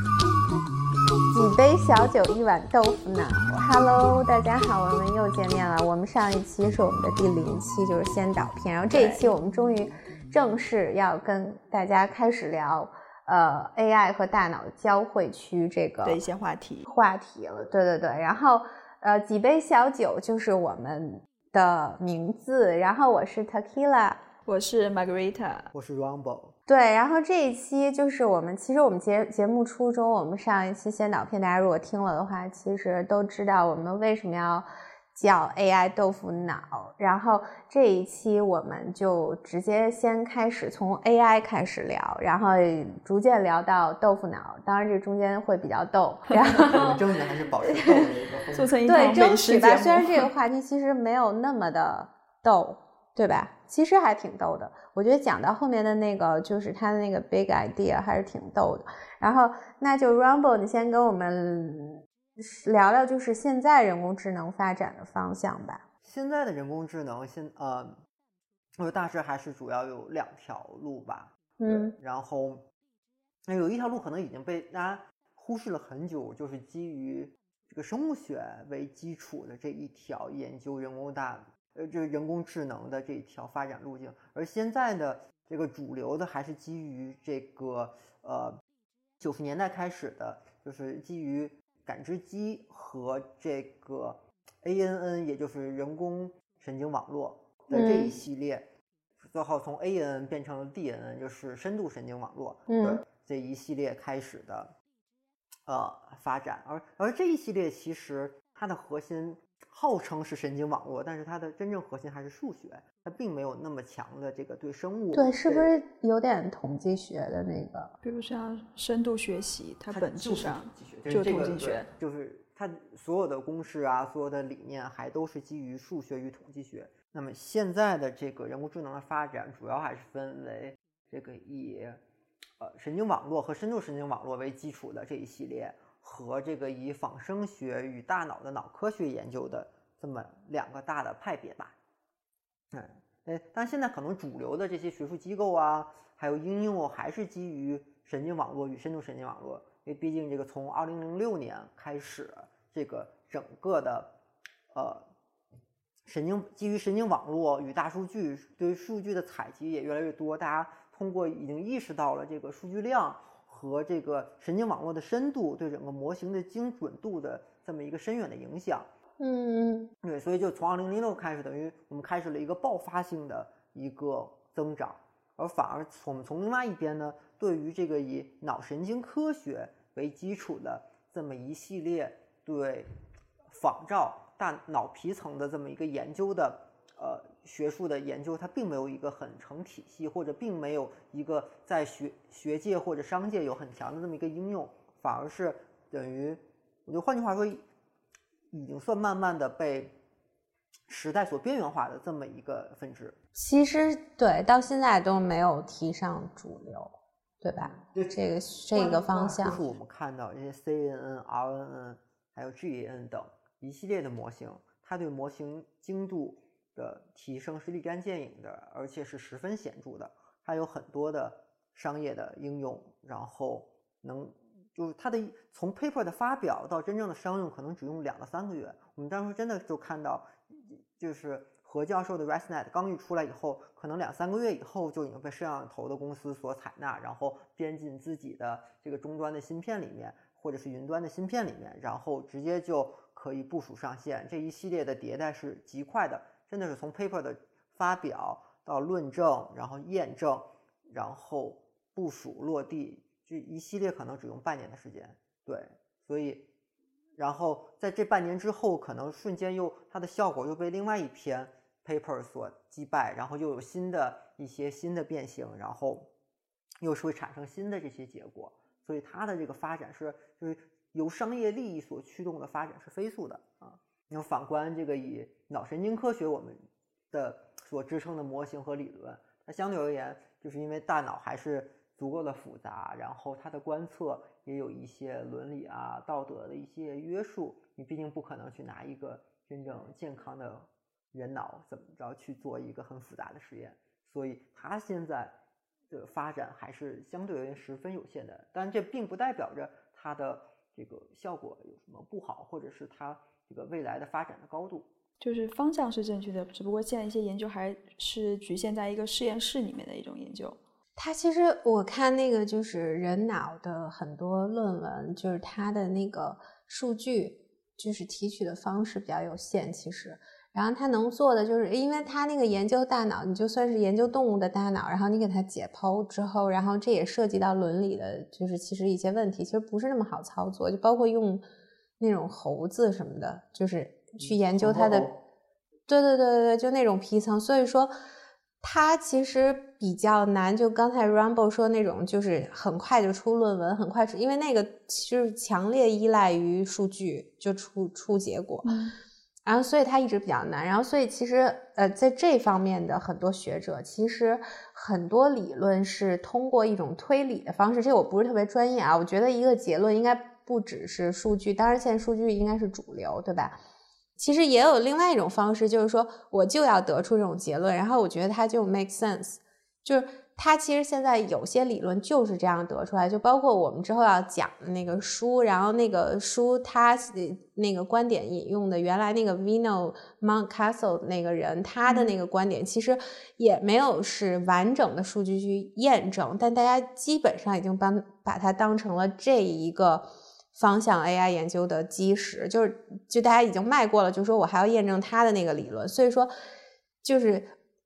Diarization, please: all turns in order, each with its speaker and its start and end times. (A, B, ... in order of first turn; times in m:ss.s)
0:01.3-0:16.2 A
0:08.9-0:09.3 B
0:16.0-0:16.9 B
0:16.9-0:24.2 A
0:24.4-0:25.7 B
0:25.7-0:26.5 C
0:26.7-0:47.0 A
0:46.6-0:48.7 C
0:47.7-0:50.3 B
0:48.8-1:05.8 A
1:06.0-1:08.0 C
1:08.8-1:12.6 C
1:11.6-1:11.9 A
1:13.5-1:28.6 C
1:29.2-1:38.6 C
1:37.7-1:38.1 A
1:39.2-1:44.7 C
1:42.7-1:43.0 A
1:45.6-1:55.7 C
1:55.1-1:57.9 A
1:58.0-2:01.9 B
1:59.9-2:12.0 C
2:12.6-2:21.7 C
2:22.7-2:34.1 C
2:34.7-2:35.0 C
2:36.0-2:48.9 C
2:49.2-2:49.9 A
2:50.0-3:02.9 C
3:03.5-3:17.6 C
3:18.5-3:19.9 C
3:20.9-3:23.2 C
3:23.3-3:29.7 A
3:27.6-3:28.2 C
3:28.7-4:16.4 C
4:17.2-4:26.1 C
4:26.8-4:36.6 C
4:37.1-4:55.3 C
4:55.9-5:04.9 C
5:05.2-5:10.6 B
5:11.0-5:31.4 A
5:32.0-5:35.1 A
5:34.2-5:35.2 C
5:35.9-5:37.9 A
5:38.6-5:48.7 A
5:48.6-5:48.9 B
5:49.4-6:03.6 A
6:04.2-6:36.3 A
6:21.8-6:22.2 B
6:37.0-6:37.5 A